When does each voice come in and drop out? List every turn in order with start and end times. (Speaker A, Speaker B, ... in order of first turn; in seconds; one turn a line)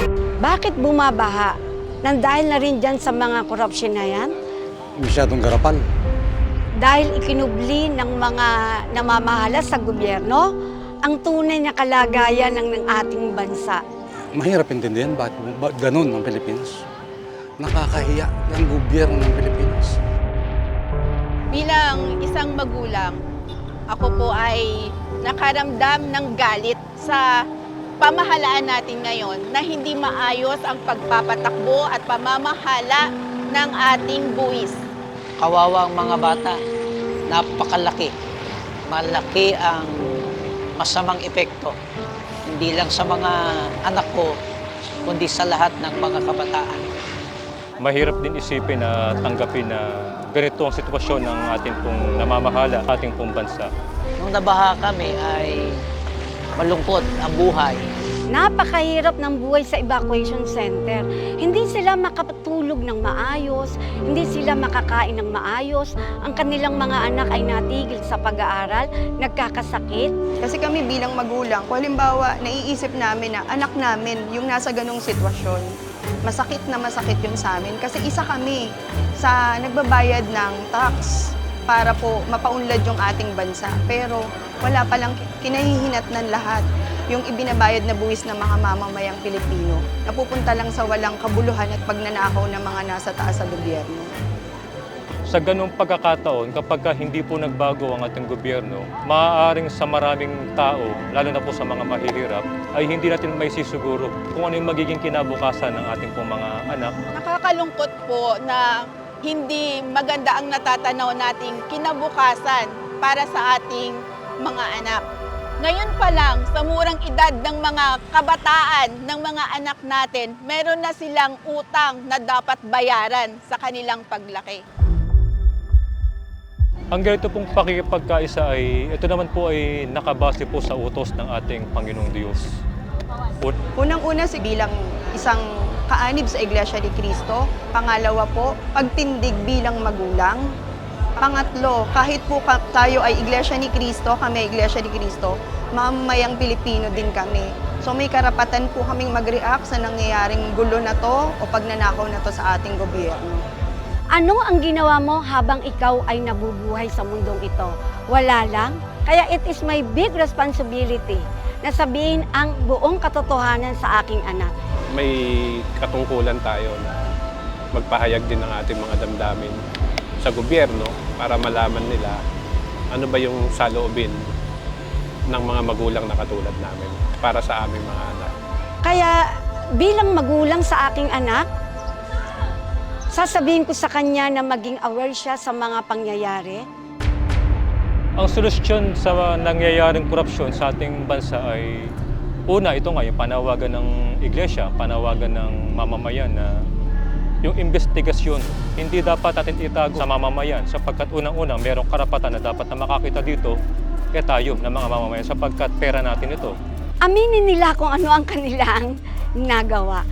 Speaker A: 0.4-4.3
Speaker B: 5.0-5.8
Speaker A: 6.8-10.5
Speaker A: 11.0-13.8
Speaker B: 14.3-16.8
Speaker B: 17.6-20.0
Speaker C: 21.5-23.2
Speaker C: 23.9-24.7
Speaker C: 25.2-27.2
Speaker C: 28.0-34.8
Speaker D: 35.4-36.6
Speaker D: 37.3-38.1
Speaker D: 38.9-40.1
Speaker D: 40.8-41.8
Speaker D: 42.5-44.3
Speaker D: 45.0-46.8
Speaker E: 47.8-53.7
Speaker D: 54.2-55.8
Speaker D: 56.6-57.9
Speaker A: 58.3-70.1
Speaker F: 70.4-75.7
Speaker F: 76.2-78.7
Speaker F: 79.2-81.2
Speaker F: 81.7-94.1
Speaker E: 95.3-106.9
Speaker C: 107.1-108.6
Speaker C: 109.2-115.0
Speaker C: 115.6-124.6
Speaker E: 126.9-132.5
Speaker F: 133.8-140.4
Speaker F: 141.2-153.4
Speaker A: 154.2-164.5
Speaker G: 164.9-167.0
Speaker G: 167.8-169.6
Speaker G: 170.2-172.2
Speaker G: 172.9-174.2
Speaker G: 175.3-178.3
Speaker A: 178.8-179.2
Speaker A: 179.8-181.5
Speaker A: 183.1-186.7
Speaker E: 188.2-191.9
Speaker E: 192.5-196.6
Speaker E: 197.4-203.6
Speaker E: 204.1-206.6
Speaker A: 207.1-210.0